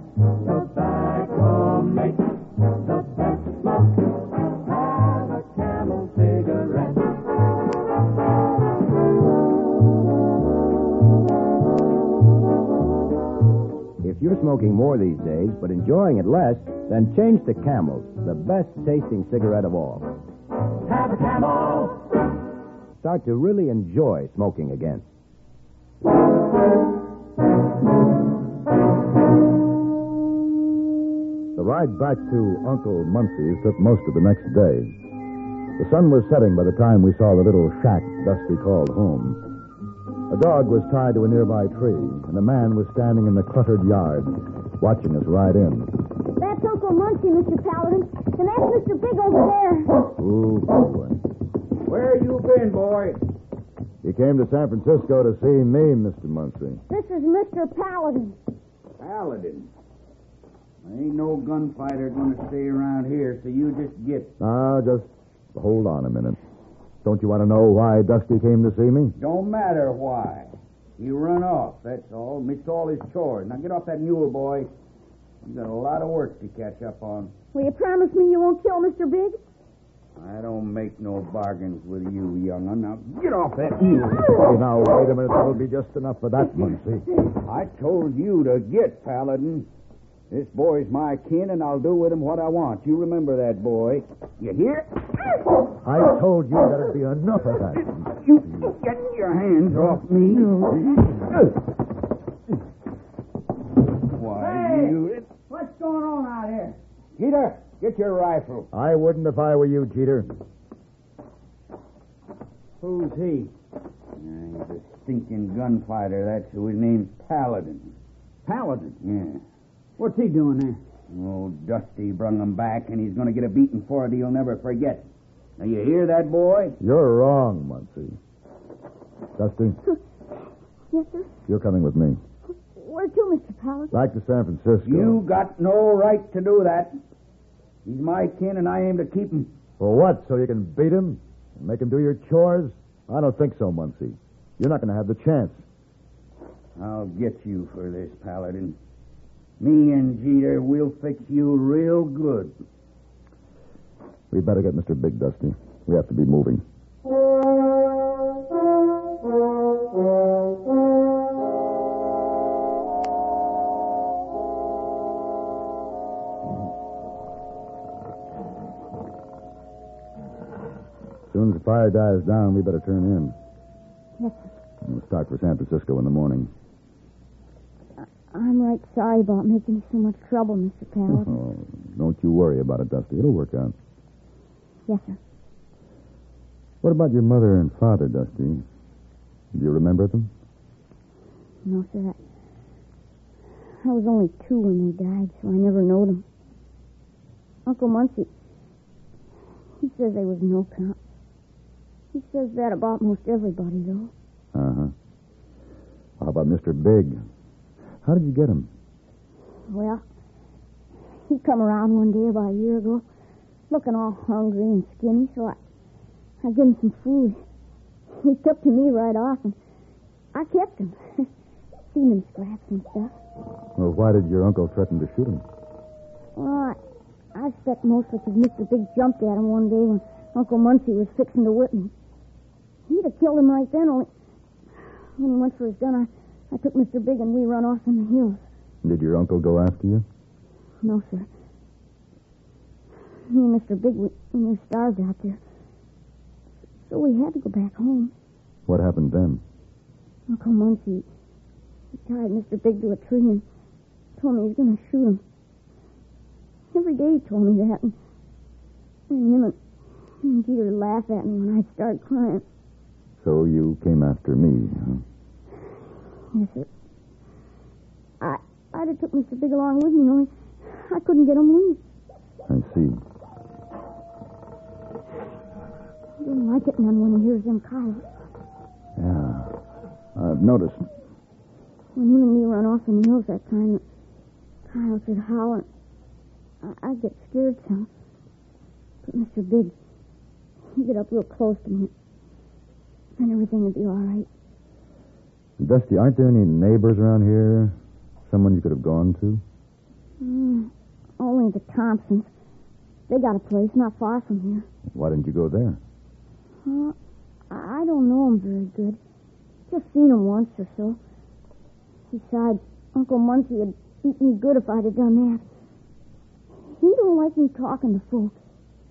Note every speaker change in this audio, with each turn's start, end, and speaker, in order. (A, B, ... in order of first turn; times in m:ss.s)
0:14.0-0:20.2 A
0:21.2-0:21.7 B
0:23.0-0:25.0 A
0:31.6-0:34.9 C
0:35.8-0:39.4 C
0:40.3-0:45.9 C
0:46.4-0:50.0 D
0:50.2-0:51.2 C
0:51.8-0:53.2 E
0:54.0-0:56.8 C
0:56.9-0:58.4 D
0:59.0-0:59.7 E
1:00.8-1:04.3 E
1:04.4-1:06.4 C
1:07.0-1:09.2 C
1:09.2-1:14.7 E
1:15.4-1:17.3 E
1:17.5-1:19.4 D
1:20.2-1:24.4 E
1:24.3-1:27.1 C
1:27.4-1:29.7 E
1:30.3-1:35.0 E
1:35.8-1:38.1 C
1:38.1-1:41.4 E
1:44.1-1:45.6 E
1:44.4-1:45.0 B
1:45.6-1:46.7 B
1:46.3-1:48.7 E
1:48.7-1:50.3 C
1:52.8-1:53.4 B
1:52.8-1:53.5 E
1:54.2-1:57.9 E
1:58.5-1:59.4 E
2:00.0-2:00.8 B
2:01.1-2:05.1 E
2:05.6-2:06.8 E
2:06.8-2:08.2 C
2:09.4-2:09.8 C
2:10.9-2:11.3 D
2:11.5-2:12.2 C
2:12.7-2:13.9 D
2:13.9-2:15.2 C
2:14.8-2:17.0 E
2:17.8-2:19.5 E
2:19.8-2:25.6 C
2:26.8-2:28.8 E
2:29.6-2:32.5 E
2:34.3-2:36.6 C
2:51.3-2:53.4 C
2:54.2-2:54.5 D
2:54.8-2:56.5 C
2:58.0-3:01.4 D
3:01.1-3:03.8 C
3:04.9-3:05.2 D
3:06.8-3:08.6 C
3:09.5-3:10.3 C
3:11.6-3:12.2 D
3:13.8-3:16.2 D
3:17.7-3:18.3 D
3:19.8-3:21.0 D
3:22.1-3:24.1 D
3:24.5-3:24.9 C
3:26.2-3:27.2 C
3:28.0-3:28.7 C
3:29.7-3:30.0 D
3:31.3-3:33.0 D
3:33.7-3:35.6 D
3:36.4-3:37.4 D
3:38.1-3:39.6 D
3:40.3-3:41.3 D
3:41.9-3:43.2 D
3:43.8-3:45.4 C
3:46.4-3:46.8 D
3:47.3-3:51.9 D
3:52.9-3:54.1 D
3:55.2-3:58.4 D
3:58.8-4:00.0 C
4:00.8-4:01.3 D
4:03.3-4:05.4 D
4:06.9-4:08.1 D
4:08.7-4:09.4 C
4:10.3-4:11.1 D
4:12.1-4:13.4 D
4:14.2-4:15.2 D
4:16.7-4:18.0 D
4:19.1-4:19.6 D
4:20.2-4:22.4 D
4:23.2-4:25.0 C
4:26.3-4:26.7 D
4:28.2-4:31.8 D
4:32.5-4:33.0 C
4:36.2-4:38.0 D
4:39.0-4:39.6 C
4:40.2-4:40.9 C
4:42.0-4:43.8 D
4:44.7-4:45.7 D
4:46.6-4:47.9 D
4:49.0-4:49.7 D
4:50.8-4:51.9 D
4:53.2-4:54.3 D
4:55.6-4:57.8 C
4:58.3-4:59.4 C
5:00.2-5:02.3 D
5:03.1-5:04.7 D
5:04.9-5:05.8 C
5:06.6-5:07.0 D
5:07.5-5:09.0 D
5:09.7-5:11.0 D
5:12.1-5:15.4 D
5:16.7-5:18.4 D